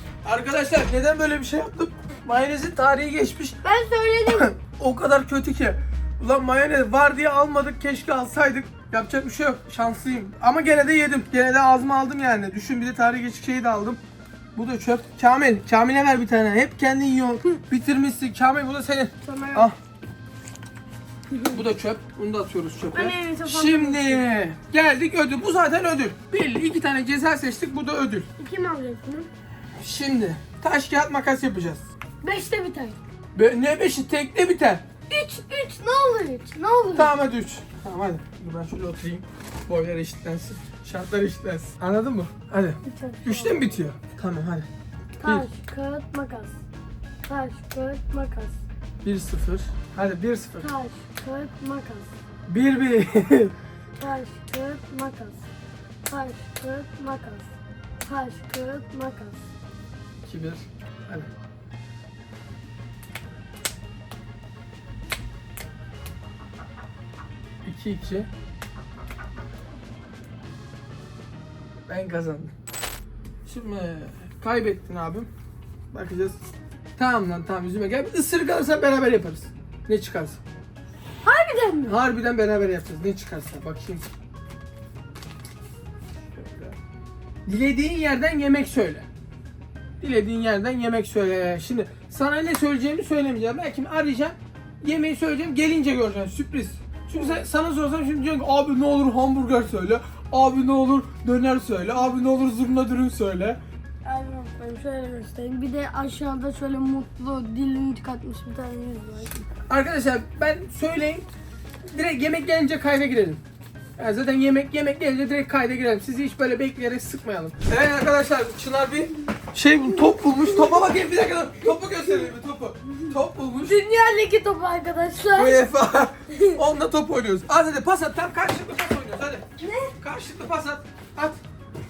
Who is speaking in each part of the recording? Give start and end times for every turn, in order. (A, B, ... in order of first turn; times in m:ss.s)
0:00.2-0:03.6 A
0:03.6-0:04.5 B
0:04.3-0:14.0 A
0:14.5-0:19.8 A
0:19.2-0:19.7 B
0:21.3-0:21.6 B
0:21.5-0:28.3 A
0:22.9-0:24.2 B
0:28.4-0:29.3 B
0:29.8-0:31.8 A
0:32.2-0:33.0 B
0:33.3-0:34.8 A
0:35.1-0:37.1 B
0:36.9-0:44.7 A
0:42.8-0:43.8 B
0:45.2-0:46.6 B
0:47.2-0:48.6 B
0:49.0-0:50.7 A
0:50.6-0:52.1 B
0:52.5-0:53.5 A
0:54.0-0:55.4 B
0:56.1-0:57.5 B
0:58.0-0:59.4 B
1:00.2-1:01.3 A
1:07.6-1:08.3 A
1:11.9-1:12.5 A
1:13.4-1:15.3 A
1:15.9-1:16.4 A
1:17.0-1:20.4 A
1:21.2-1:21.9 B
1:21.8-1:24.0 A
1:26.3-1:26.8 A
1:27.4-1:29.0 A
1:30.0-1:43.6 A
1:44.0-1:49.4 B
1:49.7-1:51.3 A
1:51.9-1:53.4 A
1:54.0-2:03.8 A
2:03.7-2:05.6 B
2:05.3-2:09.4 A
2:09.6-2:09.9 B
2:10.0-2:11.4 A